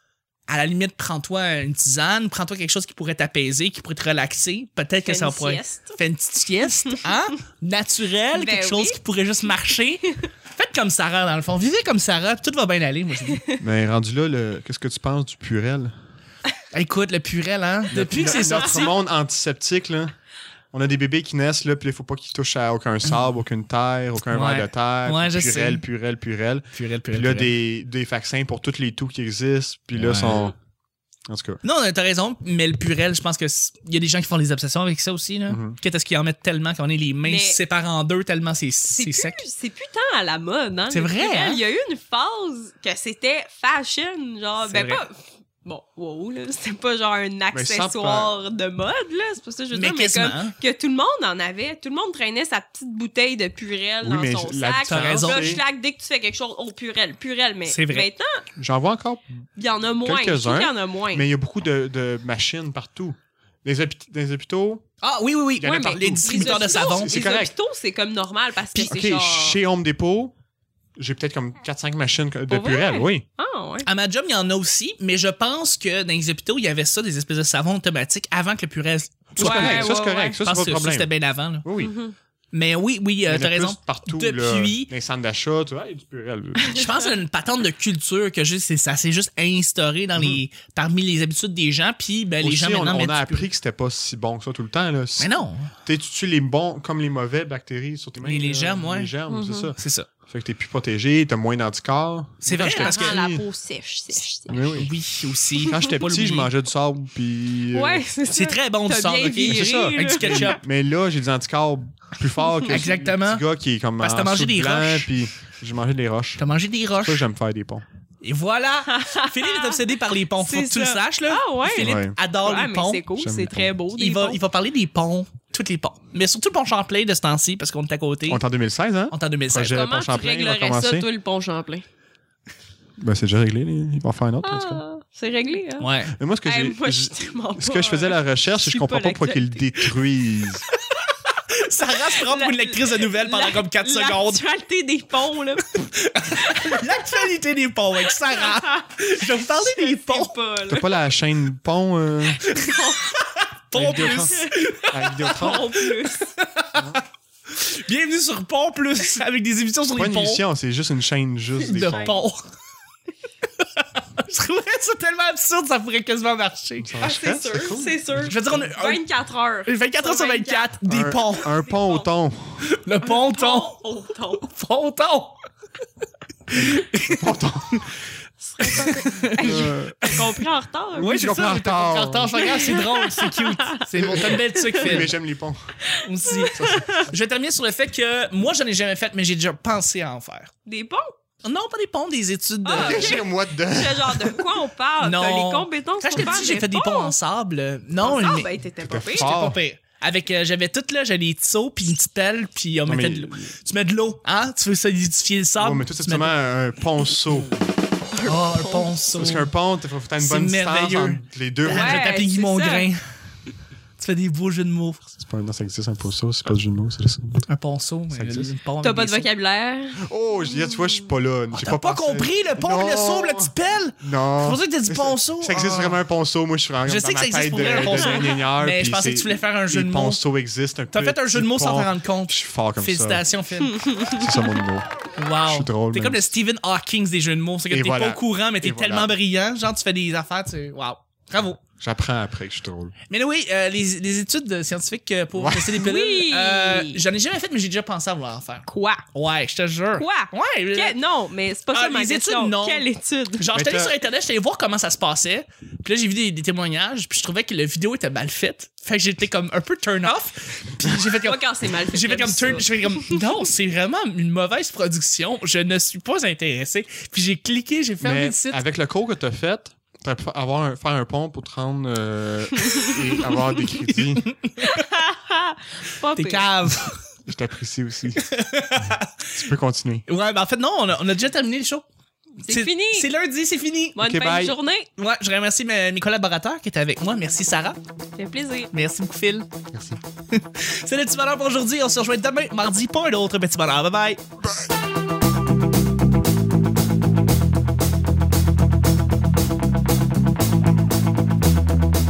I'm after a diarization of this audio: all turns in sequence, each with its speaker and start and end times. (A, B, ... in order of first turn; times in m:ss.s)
0:00.5-0:13.4 A
0:05.1-0:06.0 B
0:08.3-0:09.0 B
0:13.3-0:13.6 B
0:13.6-0:16.0 C
0:16.7-0:18.9 A
0:17.9-0:20.2 C
0:18.4-0:18.8 B
0:20.7-0:30.6 C
0:24.3-0:25.8 A
0:26.7-0:27.5 A
0:30.0-0:30.5 A
0:31.3-0:31.6 C
0:31.6-0:39.4 A
0:35.5-0:35.8 C
0:37.2-0:37.6 B
0:38.9-0:58.4 B
0:40.9-0:41.6 A
0:44.6-0:45.0 A
0:47.5-0:48.3 C
0:49.7-0:50.6 A
0:54.0-0:55.6 C
0:54.9-0:55.5 A
0:57.7-0:58.1 A
0:58.6-0:59.4 C
0:59.6-1:01.3 B
1:00.0-1:04.8 C
1:05.0-1:07.2 A
1:05.6-1:07.5 C
1:05.6-1:09.6 B
1:08.7-1:10.3 C
1:11.0-1:13.2 C
1:12.5-1:13.9 B
1:13.8-1:21.7 A
1:19.4-1:21.1 C
1:19.4-1:20.4 B
1:21.6-1:22.0 C
1:21.8-1:22.2 B
1:22.5-1:24.9 A
1:23.3-1:26.8 C
1:26.7-1:27.0 B
1:26.7-1:33.5 A
1:30.2-1:30.4 C
1:32.4-1:35.3 C
1:35.2-1:35.7 A
1:35.8-1:43.4 C
1:38.2-1:39.1 A
1:39.3-1:39.7 B
1:39.8-1:40.1 A
1:42.4-1:43.2 A
1:42.7-1:44.7 B
1:44.5-1:44.9 C
1:44.7-1:46.5 A
1:45.6-1:45.9 B
1:45.6-1:48.1 C
1:47.7-1:50.6 B
1:48.3-1:50.6 A
1:49.4-1:56.4 C
1:52.7-1:53.4 A
1:54.0-1:55.1 A
1:56.4-1:57.2 A
1:57.0-1:57.8 C
1:58.2-2:03.0 A
1:58.9-2:04.4 B
2:01.7-2:02.2 C
2:03.2-2:03.7 C
2:04.0-2:08.4 A
2:08.3-2:11.1 C
2:09.1-2:09.8 A
2:09.6-2:11.8 B
2:13.0-2:14.8 C
2:14.4-2:15.9 B
2:15.8-2:16.2 A
2:16.1-2:20.6 C
2:16.4-2:19.9 B
2:21.5-2:24.4 A
2:22.1-2:27.2 B
2:25.7-2:30.3 A
2:28.1-2:31.0 B
2:30.7-2:32.4 C
2:32.4-2:40.4 A
2:32.5-2:33.2 B
2:33.7-2:35.7 C
2:33.9-2:34.6 B
2:35.2-2:36.3 B
2:36.8-2:37.0 C
2:39.9-2:42.2 C
2:41.6-2:42.5 A
2:41.7-2:42.2 B
2:43.6-2:47.0 A
2:46.8-2:48.0 C
2:47.0-2:50.8 B
2:48.2-2:49.0 A
2:49.7-2:51.5 A
2:50.9-2:52.7 C
2:51.4-2:52.1 B
2:52.6-2:53.8 A
2:53.0-2:54.4 B
2:54.4-2:55.4 A
2:56.5-2:57.9 A
2:56.6-2:57.9 C
2:58.6-3:01.2 B
2:58.6-3:00.4 A
2:59.4-3:00.3 C
3:00.9-3:02.6 C
3:01.0-3:05.1 A
3:02.4-3:05.1 B
3:04.0-3:05.8 C
3:05.8-3:07.1 B
3:06.0-3:10.5 A
3:06.6-3:07.0 C
3:10.7-3:11.1 B
3:11.4-3:13.2 A
3:12.6-3:17.2 B
3:12.7-3:14.4 C
3:15.0-3:18.5 A
3:16.2-3:16.5 C
3:18.0-3:19.3 B
3:18.8-3:19.6 C
3:19.1-3:26.3 A
3:22.9-3:23.5 C
3:25.6-3:27.7 C
3:28.1-3:28.9 B
3:28.2-3:29.5 A
3:29.1-3:32.1 C
3:30.2-3:33.0 A
3:31.7-3:32.9 B
3:34.0-3:35.1 A
3:35.2-3:37.5 C
3:37.5-3:39.3 A
3:38.1-3:38.5 C
3:38.8-3:41.0 B
3:40.0-3:53.3 C
3:41.5-3:46.0 A
3:46.9-3:50.2 A
3:47.7-3:48.4 B
3:50.9-3:53.8 A
3:53.8-3:54.2 B
3:54.1-3:54.9 C
3:55.2-4:01.6 A
3:55.4-3:56.3 C
3:57.7-3:59.1 C
4:01.8-4:03.0 C
4:03.1-4:11.0 A
4:05.4-4:05.8 C
4:05.8-4:07.0 B
4:08.7-4:09.0 B
4:10.0-4:13.5 B
4:11.7-4:12.9 A
4:13.4-4:28.6 A
4:13.5-4:13.9 C
4:21.0-4:23.4 B
4:28.0-4:34.3 C
4:32.6-4:33.0 B
4:34.2-4:34.8 A
4:34.6-4:36.5 B
4:36.2-4:37.0 A
4:37.3-4:38.2 C
4:38.2-4:39.3 A
4:39.3-4:40.0 C
4:40.1-4:41.9 A
4:42.4-4:44.0 A
4:42.4-4:43.1 B
4:44.0-4:44.9 B
4:44.0-4:44.6 C
4:45.0-4:47.8 A
4:48.2-4:48.7 B
4:48.7-4:49.5 A
4:49.7-4:50.0 C
4:50.3-4:54.2 A